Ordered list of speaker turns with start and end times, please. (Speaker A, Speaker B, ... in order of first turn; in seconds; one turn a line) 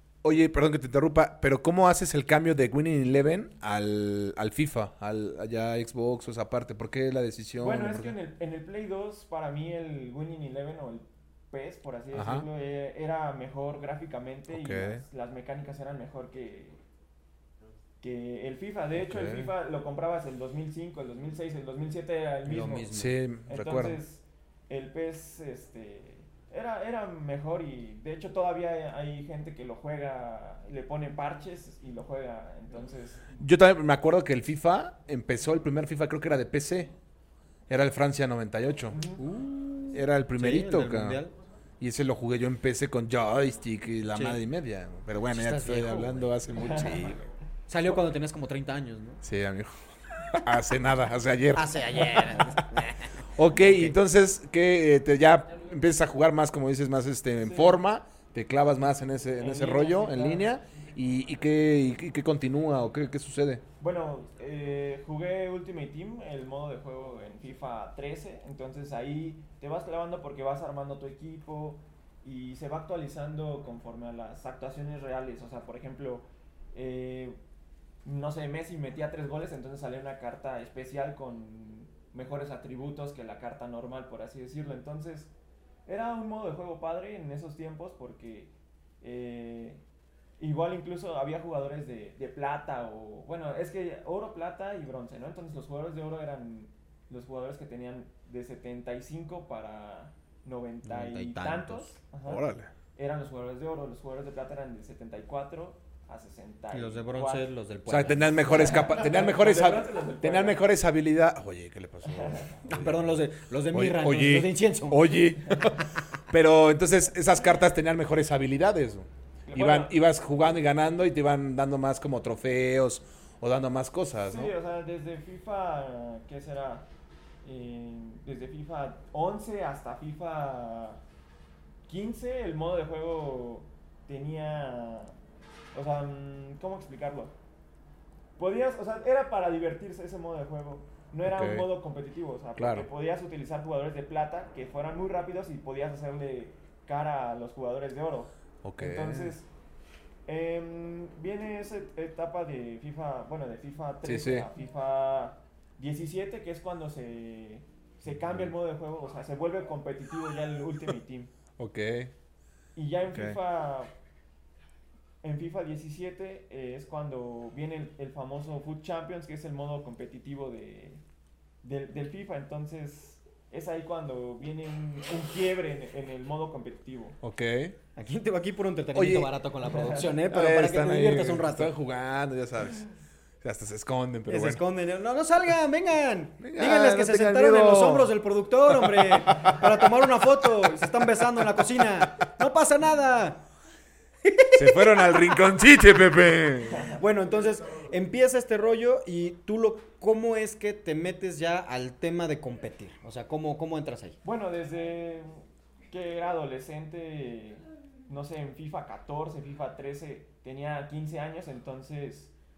Speaker A: 0.2-8.1
Speaker B: 7.6-16.8
Speaker A: 12.1-12.5
Speaker A: 14.5-15.1
Speaker B: 18.0-22.9
Speaker A: 19.0-19.6
Speaker C: 22.5-23.2
Speaker A: 22.9-24.0
Speaker B: 23.5-33.2
Speaker A: 33.4-36.9
Speaker A: 37.7-39.0
Speaker B: 38.9-39.2
Speaker C: 39.2-41.3
Speaker A: 39.9-41.2
Speaker A: 41.8-47.3
Speaker C: 44.1-44.4
Speaker C: 45.3-46.4
Speaker B: 46.6-47.1
Speaker C: 47.7-49.2
Speaker A: 49.2-49.7
Speaker A: 50.3-63.6
Speaker C: 51.5-54.0
Speaker B: 57.4-57.8
Speaker B: 59.4-60.5
Speaker B: 63.8-77.4
Speaker B: 78.0-85.3
Speaker B: 85.9-89.8
Speaker B: 90.4-102.5
Speaker C: 100.8-101.9
Speaker A: 102.3-102.7
Speaker B: 103.0-107.5
Speaker C: 106.7-108.9
Speaker A: 107.9-113.2
Speaker B: 108.7-110.6
Speaker B: 112.2-112.5
Speaker C: 112.7-115.2
Speaker A: 113.7-124.5
Speaker B: 119.5-120.0
Speaker B: 124.3-126.9
Speaker B: 127.4-131.0
Speaker B: 131.9-135.2
Speaker B: 135.7-137.3
Speaker B: 138.4-149.5
Speaker A: 141.2-141.7
Speaker A: 142.6-142.9
Speaker A: 148.6-149.3
Speaker B: 150.3-161.3
Speaker A: 154.0-154.5
Speaker A: 158.1-158.5
Speaker A: 161.6-162.1
Speaker B: 162.8-163.9
Speaker A: 163.1-163.4
Speaker B: 165.2-171.0
Speaker B: 171.6-177.2
Speaker A: 177.2-177.8
Speaker C: 178.0-181.7
Speaker A: 178.9-179.3
Speaker B: 179.7-180.1
Speaker A: 180.3-182.9
Speaker A: 183.4-184.6
Speaker C: 184.3-193.5
Speaker A: 186.4-188.2
Speaker A: 188.7-189.7
Speaker C: 194.2-195.4
Speaker A: 194.5-196.9
Speaker B: 196.7-197.0
Speaker C: 196.9-204.2
Speaker B: 204.2-212.3